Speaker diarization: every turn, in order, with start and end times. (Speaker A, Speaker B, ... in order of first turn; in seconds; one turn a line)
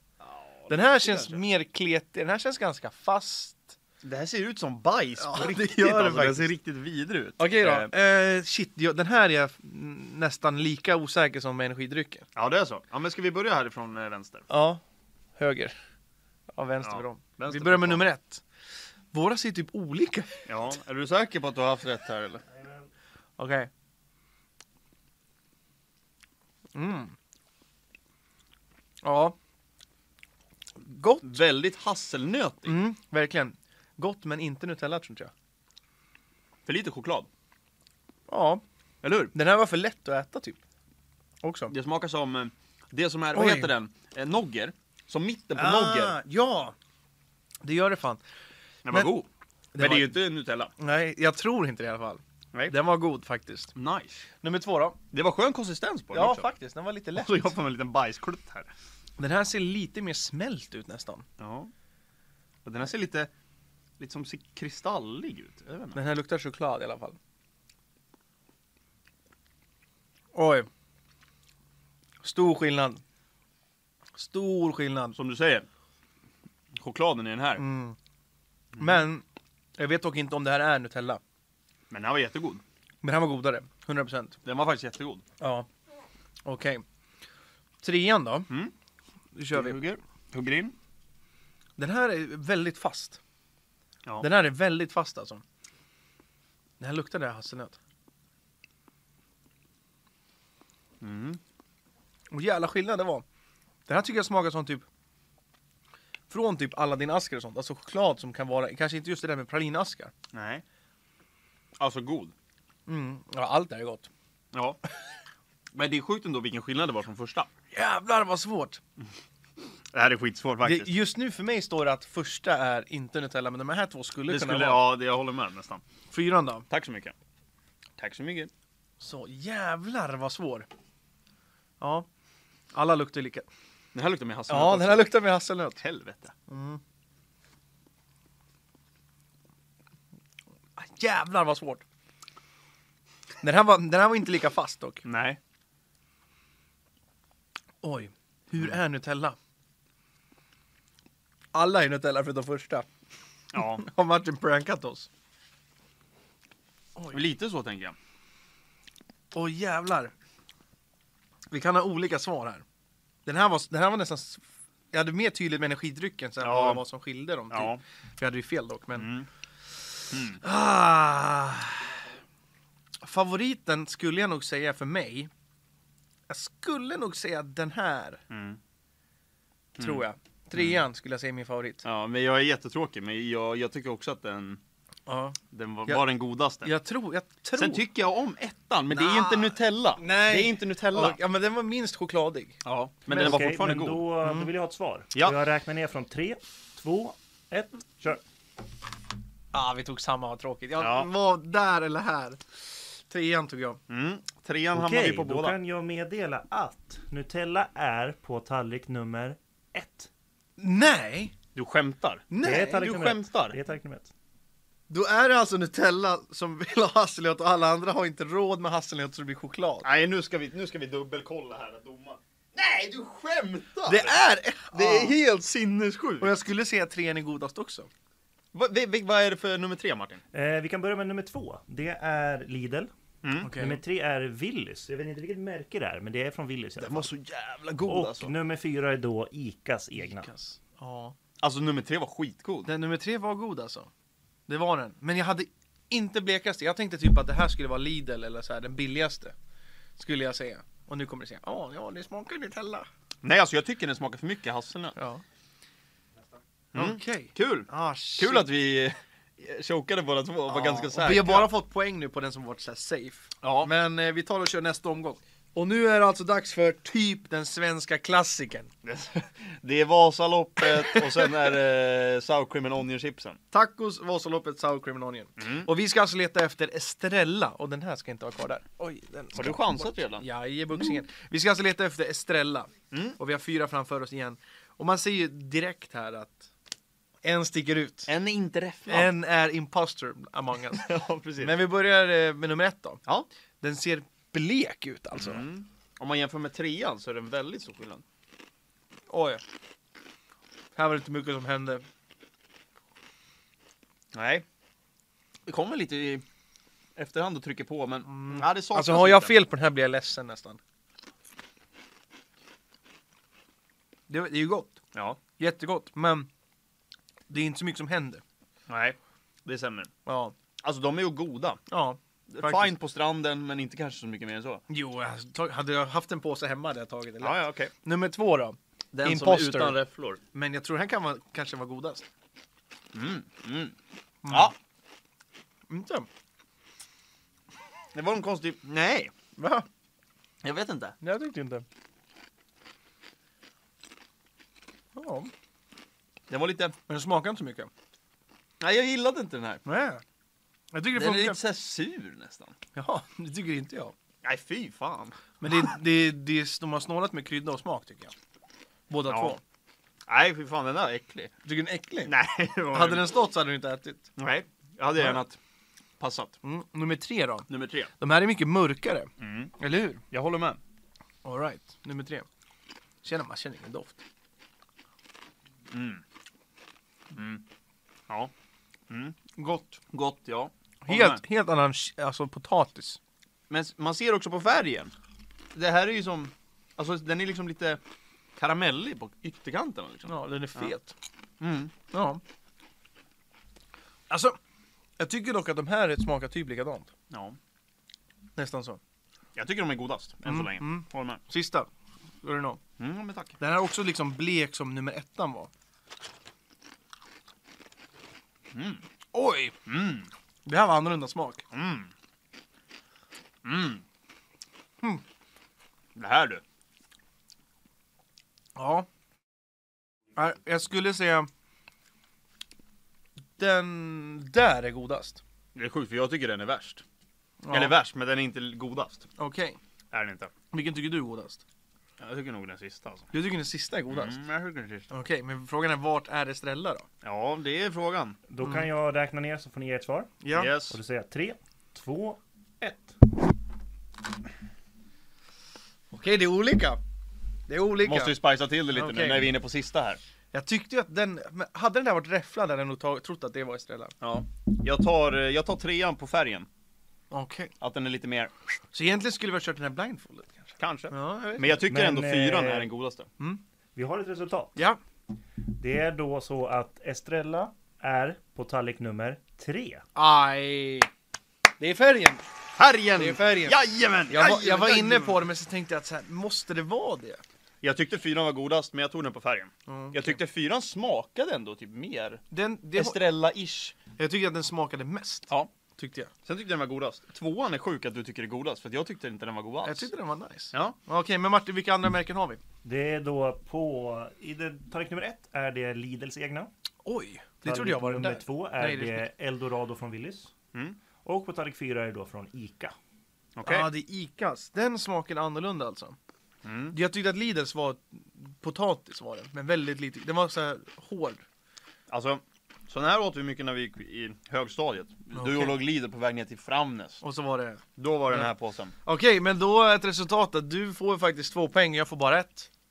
Speaker A: 0.2-1.4
Speaker B: 0.7-3.8
Speaker A: 4.0-7.9
Speaker B: 5.2-6.5
Speaker B: 7.4-12.3
Speaker A: 12.4-14.5
Speaker B: 14.5-14.8
Speaker B: 15.4-15.8
Speaker B: 16.5-18.4
Speaker A: 16.8-18.0
Speaker B: 19.1-20.5
Speaker A: 20.5-22.4
Speaker B: 23.4-23.7
Speaker B: 26.8-27.1
Speaker B: 29.0-29.4
Speaker B: 30.9-31.3
Speaker A: 31.2-32.8
Speaker B: 32.6-35.3
Speaker A: 36.7-37.3
Speaker B: 38.3-38.6
Speaker A: 39.0-39.3
Speaker B: 39.3-40.6
Speaker B: 41.4-41.7
Speaker A: 41.7-46.2
Speaker B: 43.3-43.7
Speaker B: 45.5-46.8
Speaker B: 47.6-48.2
Speaker A: 48.9-49.3
Speaker B: 49.7-50.2
Speaker A: 49.8-50.7
Speaker B: 50.8-53.7
Speaker A: 53.8-54.2
Speaker B: 54.4-55.0
Speaker A: 55.1-56.5
Speaker B: 56.1-57.5
Speaker A: 57.2-58.7
Speaker B: 59.2-61.2
Speaker A: 61.4-61.7
Speaker A: 62.6-63.3
Speaker A: 64.0-66.0
Speaker B: 66.0-67.2
Speaker B: 70.3-70.7
Speaker B: 72.2-73.0
Speaker B: 74.2-75.2
Speaker A: 75.2-75.7
Speaker A: 76.8-77.7
Speaker B: 77.6-78.0
Speaker A: 78.7-79.0
Speaker B: 78.8-79.2
Speaker B: 79.8-81.2
Speaker A: 81.9-82.6
Speaker B: 83.0-84.4
Speaker A: 84.5-85.2
Speaker B: 85.4-85.7
Speaker B: 86.5-86.8
Speaker B: 87.8-88.5
Speaker B: 89.4-89.8
Speaker A: 89.5-90.8
Speaker B: 91.8-93.2
Speaker B: 94.2-95.4
Speaker B: 96.8-97.8
Speaker A: 101.0-101.4
Speaker B: 102.3-103.2
Speaker B: 103.9-104.8
Speaker B: 106.3-110.1
Speaker A: 110.3-110.6
Speaker A: 111.8-112.3
Speaker B: 112.9-114.1
Speaker A: 114.5-114.8
Speaker A: 115.7-117.5
Speaker B: 117.7-118.8
Speaker A: 119.9-120.9
Speaker B: 120.6-124.9
Speaker A: 124.3-125.8
Speaker B: 126.1-126.7
Speaker A: 126.7-127.1
Speaker A: 128.0-128.5
Speaker B: 129.0-130.7
Speaker B: 131.8-132.1
Speaker B: 132.7-133.5
Speaker A: 133.9-135.2
Speaker B: 134.5-135.8
Speaker A: 135.8-136.3
Speaker B: 136.5-136.8
Speaker B: 140.8-141.8
Speaker B: 143.4-145.0
Speaker A: 145.1-145.4
Speaker B: 147.8-149.4
Speaker B: 151.5-152.9
Speaker A: 153.5-153.8
Speaker B: 153.6-155.1
Speaker A: 157.1-158.0
Speaker B: 159.3-160.1
Speaker B: 161.5-162.6
Speaker B: 163.3-169.1
Speaker A: 166.4-166.8
Speaker A: 167.5-167.8
Speaker A: 169.0-169.3
Speaker A: 170.1-170.4
Speaker B: 170.4-171.9
Speaker B: 173.0-175.3
Speaker B: 176.3-178.2
Speaker A: 178.3-178.6
Speaker B: 179.8-181.8
Speaker A: 179.8-180.0
Speaker A: 180.6-180.8
Speaker A: 181.8-184.6
Speaker B: 185.1-186.1
Speaker A: 185.5-186.7
Speaker B: 186.6-187.8
Speaker A: 187.6-191.2
Speaker B: 188.9-192.6
Speaker A: 192.7-194.5
Speaker C: 193.1-198.2
Speaker B: 199.5-202.4
Speaker A: 200.8-201.1
Speaker B: 203.1-203.8
Speaker A: 203.9-205.6
Speaker C: 204.7-210.1
Speaker B: 210.6-211.3
Speaker A: 211.6-213.6
Speaker B: 212.3-212.9
Speaker C: 212.4-214.1
Speaker B: 214.9-219.9
Speaker A: 219.8-224.2
Speaker B: 223.8-225.2
Speaker A: 224.7-226.3
Speaker B: 226.2-227.9
Speaker A: 228.5-230.2
Speaker C: 230.3-232.9
Speaker A: 233.2-233.5
Speaker B: 233.4-233.8
Speaker C: 233.6-237.1
Speaker A: 236.8-238.3
Speaker C: 237.9-240.3
Speaker B: 240.0-241.2
Speaker A: 241.4-242.7
Speaker B: 242.7-243.9
Speaker B: 244.5-249.3
Speaker B: 250.0-252.9
Speaker A: 253.2-254.9
Speaker B: 255.0-255.2
Speaker A: 256.7-261.5
Speaker B: 256.8-258.5
Speaker B: 260.5-268.7
Speaker A: 263.4-263.7
Speaker A: 268.8-273.4
Speaker B: 270.6-271.3
Speaker B: 273.5-286.5
Speaker A: 275.4-275.7
Speaker A: 279.4-281.0
Speaker A: 282.9-283.2
Speaker B: 287.2-288.1
Speaker A: 288.1-289.1
Speaker B: 288.9-290.9
Speaker A: 290.7-291.6
Speaker B: 291.4-293.0
Speaker B: 293.6-295.4
Speaker A: 295.2-298.0
Speaker B: 299.1-299.4
Speaker B: 300.8-301.9
Speaker A: 304.1-304.4
Speaker A: 305.5-306.2
Speaker A: 307.0-309.3
Speaker B: 308.1-310.6
Speaker B: 314.1-314.8
Speaker A: 314.9-315.2
Speaker B: 315.4-316.3
Speaker B: 317.3-318.2
Speaker A: 318.7-319.9
Speaker B: 320.1-320.4
Speaker A: 320.6-321.6
Speaker B: 321.7-322.8
Speaker A: 322.3-324.6
Speaker B: 324.7-329.8
Speaker A: 327.2-327.7
Speaker A: 328.9-330.2
Speaker B: 330.3-332.1
Speaker A: 332.9-333.8
Speaker B: 334.2-334.5
Speaker A: 334.3-334.6
Speaker B: 335.7-336.1
Speaker A: 337.9-339.1
Speaker B: 339.4-339.7
Speaker A: 340.4-341.0
Speaker B: 341.0-341.6
Speaker B: 344.9-345.3
Speaker A: 346.3-346.8
Speaker B: 346.9-347.7
Speaker A: 348.6-349.6
Speaker B: 349.6-350.0
Speaker B: 350.7-351.4
Speaker A: 350.9-352.6
Speaker B: 352.8-353.9
Speaker A: 354.2-355.2
Speaker B: 355.4-358.1
Speaker B: 358.9-359.4
Speaker A: 359.1-359.4
Speaker A: 360.1-361.3
Speaker B: 361.4-362.1
Speaker A: 362.1-363.1
Speaker B: 362.7-364.1
Speaker A: 364.2-365.4
Speaker A: 366.0-366.4
Speaker B: 366.4-367.5
Speaker A: 367.5-367.9
Speaker B: 368.0-370.0
Speaker A: 369.2-369.6
Speaker A: 370.1-370.6
Speaker B: 371.2-372.3
Speaker B: 373.0-374.0
Speaker A: 375.7-376.0
Speaker A: 377.1-377.4
Speaker A: 378.9-379.2
Speaker B: 379.4-379.8
Speaker A: 379.9-381.2
Speaker B: 380.8-383.0
Speaker A: 383.5-384.9
Speaker A: 385.5-387.8
Speaker A: 388.4-390.7
Speaker B: 390.1-390.9
Speaker A: 391.4-391.7
Speaker B: 391.9-392.2
Speaker B: 394.1-394.4
Speaker B: 395.0-396.9
Speaker A: 397.1-397.4
Speaker B: 398.4-398.8
Speaker A: 399.4-401.2
Speaker B: 400.2-401.7
Speaker B: 402.2-402.6
Speaker A: 402.8-403.4
Speaker B: 403.4-405.5
Speaker A: 408.5-408.8
Speaker B: 409.1-409.6
Speaker A: 409.7-410.1
Speaker B: 410.5-411.4
Speaker A: 411.5-411.9
Speaker A: 413.4-413.8
Speaker A: 415.9-416.4
Speaker B: 418.6-418.9
Speaker B: 420.2-421.3
Speaker B: 423.4-425.2
Speaker A: 425.6-426.8
Speaker B: 427.4-427.8
Speaker A: 427.5-429.1
Speaker B: 429.2-429.6
Speaker A: 429.9-430.3
Speaker B: 430.5-431.4
Speaker A: 432.0-433.1
Speaker B: 433.1-434.2
Speaker A: 433.9-434.9
Speaker B: 434.9-436.9
Speaker A: 437.0-438.2
Speaker C: 438.3-443.0
Speaker B: 438.4-438.7
Speaker B: 440.2-440.5
Speaker A: 440.3-440.8
Speaker B: 445.9-446.8
Speaker B: 447.5-448.1
Speaker A: 447.8-450.0
Speaker B: 448.7-449.3
Speaker B: 450.3-453.9
Speaker A: 454.0-456.5
Speaker B: 457.1-457.5
Speaker A: 457.6-458.3
Speaker B: 458.7-461.5
Speaker A: 460.6-463.1
Speaker C: 461.7-462.7
Speaker C: 463.8-464.6
Speaker C: 465.6-469.8
Speaker B: 470.0-470.9
Speaker B: 471.6-472.2
Speaker A: 472.6-475.2
Speaker B: 473.0-473.6
Speaker B: 474.1-477.2
Speaker A: 477.6-482.2
Speaker B: 479.7-480.2
Speaker B: 482.3-483.0
Speaker A: 482.8-483.8
Speaker B: 483.9-486.1
Speaker A: 486.3-489.9
Speaker B: 489.6-492.4
Speaker C: 492.6-496.5
Speaker B: 496.8-499.1
Speaker C: 497.4-500.3
Speaker C: 501.0-502.8
Speaker A: 503.4-503.7
Speaker B: 503.4-506.0
Speaker A: 506.4-506.8
Speaker B: 506.7-511.2
Speaker A: 511.9-517.0
Speaker B: 515.1-515.6
Speaker B: 517.0-518.3
Speaker A: 517.8-518.7
Speaker B: 518.8-522.5